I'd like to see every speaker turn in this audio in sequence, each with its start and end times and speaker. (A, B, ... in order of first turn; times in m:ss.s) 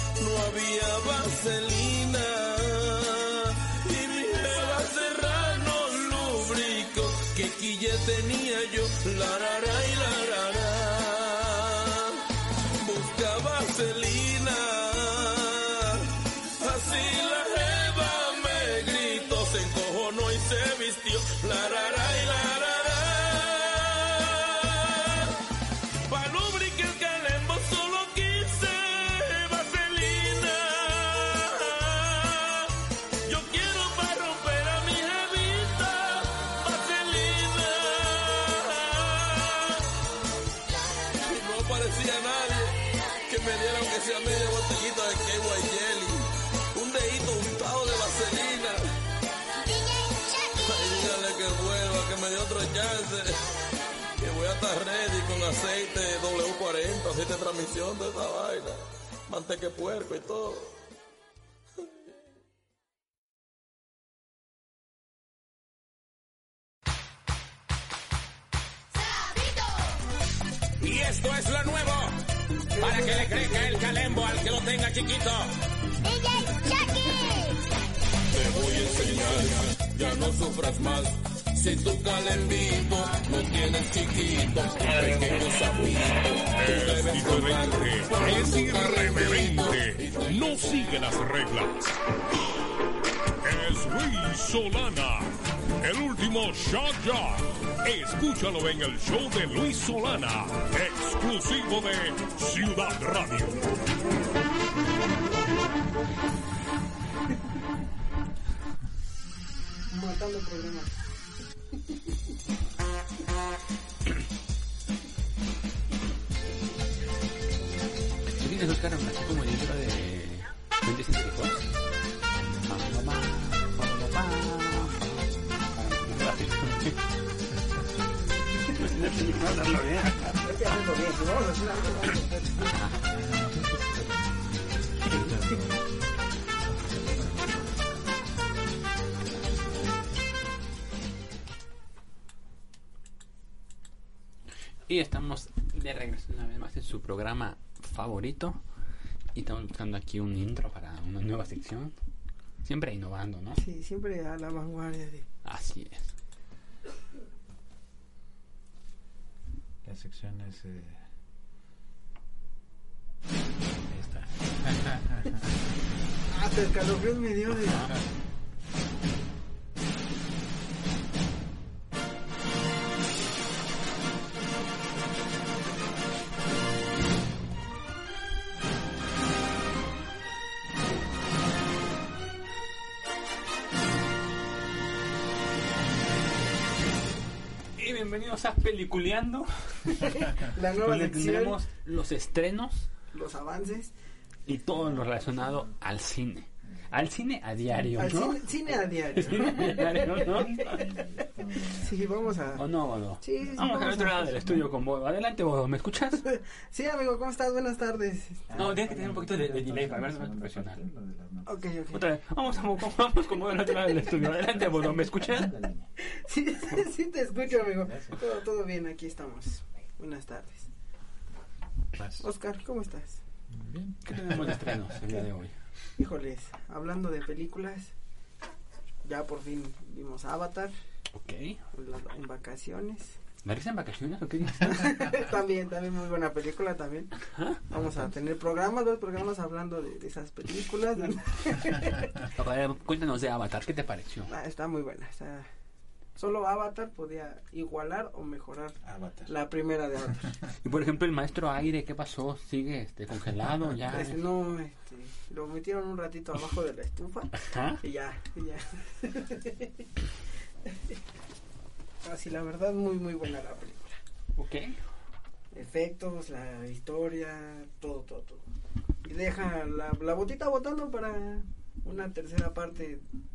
0:00.2-0:12.2 A
0:12.8-0:25.4 A
0:26.0-0:32.7 A
0:33.2-0:39.9 A
0:41.1-0:48.8 A
0:49.8-0:53.6 A
0:54.2-1:00.8 A
1:10.8-1:12.2 B
1:12.7-1:13.8 C
1:12.8-1:15.5 B
1:18.3-1:30.7 A
1:26.5-1:32.0 D
1:33.4-1:43.6 D
1:43.2-1:45.6 C
1:49.9-1:51.0 C
1:58.4-2:01.7 E
2:02.6-2:05.0 E
2:05.7-2:07.0 E
2:08.8-2:10.2 E
2:10.2-2:12.7 C
2:12.7-2:13.0 E
2:13.1-2:18.2 F
2:24.9-2:28.6 E
2:29.4-2:32.0 E
2:32.6-2:33.6 E
2:33.6-2:35.3 C
2:35.4-2:36.1 E
2:39.8-2:41.0 F
2:43.9-2:45.4 F
2:46.3-2:47.9 C
3:07.8-3:10.2 E
3:10.0-3:11.6 C
3:10.8-3:12.9 E
3:13.1-3:13.9 C
3:14.5-3:18.4 E
3:14.7-3:15.7 F
3:17.7-3:18.1 F
3:18.0-3:20.9 C
3:19.2-3:20.9 E
3:19.5-3:22.6 F
3:21.7-3:22.7 C
3:22.6-3:26.3 E
3:23.2-3:24.3 C
3:23.4-3:24.7 F
3:26.3-3:28.6 C
3:28.5-3:31.6 F
3:28.6-3:30.9 E
3:31.5-3:32.0 C
3:31.9-3:35.5 E
3:34.4-3:35.9 F
3:36.0-3:40.7 C
3:37.8-3:38.2 F
3:41.9-3:42.3 F
3:42.2-3:43.2 C
3:43.5-3:45.0 F
3:44.1-3:45.5 E
3:46.0-3:47.9 C
3:49.0-3:50.7 C
3:51.1-3:51.6 E
3:51.7-3:53.2 C
3:53.4-3:54.9 E
3:54.6-3:57.2 C
3:57.3-3:57.7 E
3:57.7-4:02.2 C
4:02.4-4:04.3 E
4:04.3-4:05.5 C
4:06.2-4:10.4 C
4:08.8-4:09.4 F
4:10.6-4:14.2 E
4:13.9-4:19.9 C
4:17.4-4:17.8 E
4:20.7-4:21.0 C
4:22.0-4:24.0 C
4:24.4-4:24.8 E
4:25.5-4:28.5 C
4:29.0-4:33.0 C